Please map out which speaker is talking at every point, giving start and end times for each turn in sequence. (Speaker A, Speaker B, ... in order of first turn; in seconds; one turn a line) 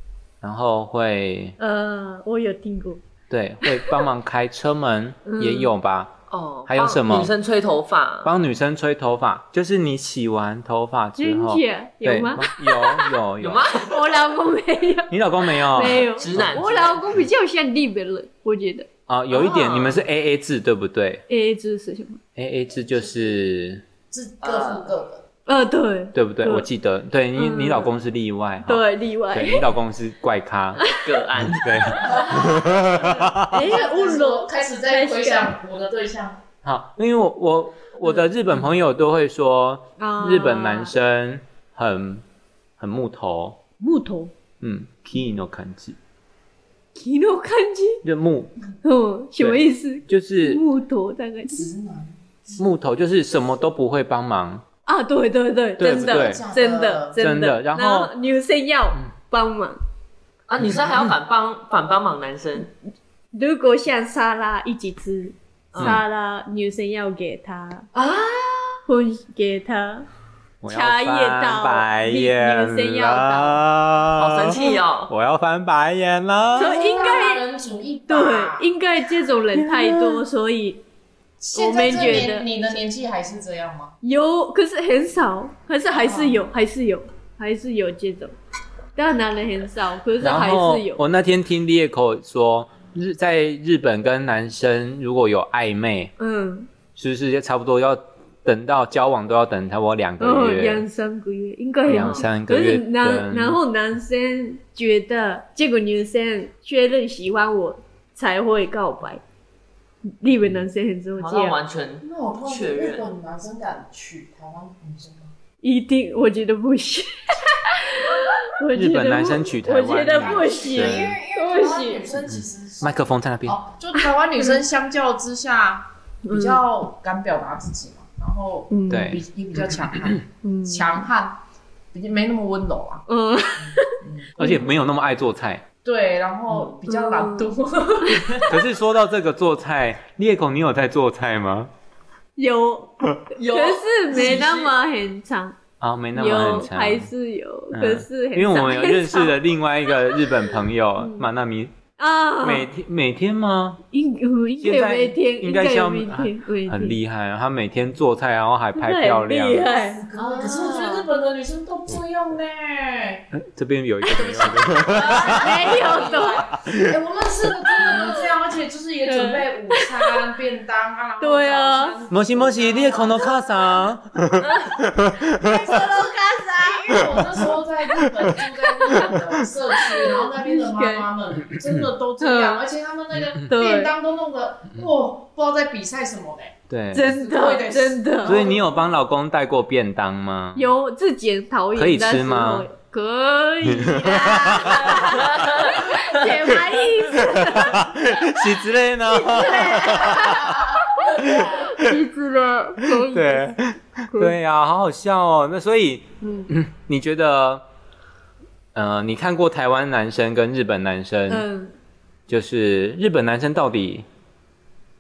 Speaker A: 0.4-1.6
Speaker B: 1.6-3.0
Speaker A: 3.3-6.1
Speaker B: 3.6-4.0
Speaker B: 5.3-5.7
Speaker C: 6.3-8.3
Speaker A: 6.7-7.3
Speaker A: 8.2-13.7
Speaker B: 11.2-13.2
Speaker C: 13.4-14.1
Speaker B: 13.8-18.9
Speaker A: 15.1-16.6
Speaker C: 15.8-17.1
Speaker A: 19.1-21.2
Speaker C: 19.3-20.0
Speaker B: 21.3-22.2
Speaker A: 22.4-23.8
Speaker D: 24.1-25.2
Speaker C: 24.4-24.9
Speaker B: 25.5-26.7
Speaker A: 26.1-30.8
Speaker B: 27.4-27.9
Speaker B: 28.6-29.7
Speaker C: 30.9-32.2
Speaker A: 31.4-33.7
Speaker D: 32.0-36.4
Speaker B: 33.5-35.5
Speaker A: 36.6-42.2
Speaker B: 40.0-40.9
Speaker A: 42.8-43.6
Speaker B: 43.8-44.3
Speaker A: 44.6-46.0
Speaker B: 47.0-48.0
Speaker A: 48.0-48.5
Speaker B: 48.8-51.7
Speaker A: 49.4-50.6
Speaker D: 51.5-52.6
Speaker A: 52.6-54.6
Speaker B: 54.9-59.8
Speaker A: 55.8-56.5
Speaker D: 55.8-57.2
Speaker A: 57.2-58.1
Speaker C: 60.5-62.7
Speaker B: 63.3-67.9
Speaker C: 65.7-66.0
Speaker A: 65.8-66.0
Speaker C: 67.9-68.8
Speaker B: 68.9-70.1
Speaker A: 70.6-76.9
Speaker B: 70.7-73.6
Speaker C: 74.2-75.1
Speaker B: 76.5-77.4
Speaker D: 76.6-78.7
Speaker B: 78.1-80.8
Speaker A: 79.6-80.2
Speaker D: 81.4-83.9
Speaker B: 81.5-82.5
Speaker B: 84.0-88.3
Speaker D: 86.1-86.3
Speaker B: 89.0-91.0
Speaker A: 90.2-96.1
Speaker B: 96.2-96.7
Speaker A: 97.0-100.8
Speaker B: 100.2-109.2
Speaker A: 101.9-103.6
Speaker C: 101.9-102.2
Speaker B: 110.2-111.6
Speaker C: 111.2-113.1
Speaker D: 112.0-115.3
Speaker B: 115.6-122.0
Speaker A: 118.7-121.2
Speaker D: 120.1-131.4
Speaker A: 122.3-123.6
Speaker B: 126.3-126.6
Speaker B: 128.7-129.2
Speaker A: 128.9-130.2
Speaker B: 130.4-130.9
Speaker D: 131.9-133.1
Speaker B: 133.1-134.7
Speaker D: 133.6-134.7
Speaker A: 134.4-135.6
Speaker D: 135.8-138.6
Speaker C: 136.5-136.8
Speaker B: 136.9-137.5
Speaker B: 138.1-138.4
Speaker A: 138.5-141.7
Speaker B: 142.4-145.6
Speaker C: 143.4-144.7
Speaker A: 145.8-147.1
Speaker B: 146.2-149.4
Speaker A: 147.7-151.7
Speaker B: 151.0-151.3
Speaker B: 152.0-152.7
Speaker A: 152.4-153.8
Speaker B: 153.9-157.0
Speaker A: 154.6-159.8
Speaker B: 158.8-160.1
Speaker D: 159.9-163.3
Speaker C: 160.1-161.1
Speaker A: 163.3-165.7
Speaker D: 164.1-173.9
Speaker B: 164.1-164.5
Speaker C: 164.9-165.3
Speaker B: 165.2-166.5
Speaker A: 166.6-166.9
Speaker B: 167.7-168.3
Speaker B: 169.1-170.2
Speaker B: 171.2-172.0
Speaker A: 172.1-175.8
Speaker D: 175.3-188.7
Speaker B: 175.7-177.1
Speaker A: 176.9-177.4
Speaker A: 178.0-179.3
Speaker B: 178.6-179.1
Speaker B: 179.7-181.1
Speaker B: 182.2-182.6
Speaker A: 183.1-183.5
Speaker B: 183.5-183.9
Speaker A: 186.7-187.1
Speaker B: 186.9-188.5
Speaker A: 188.2-190.7
Speaker B: 190.6-198.3
Speaker A: 191.8-192.7
Speaker A: 193.6-195.3
Speaker C: 195.2-195.7
Speaker A: 196.4-202.0
Speaker B: 199.1-203.4
Speaker D: 201.1-201.7
Speaker A: 202.8-207.6
Speaker B: 206.2-206.5
Speaker A: 208.8-211.4
Speaker B: 211.3-211.7
Speaker A: 212.3-214.1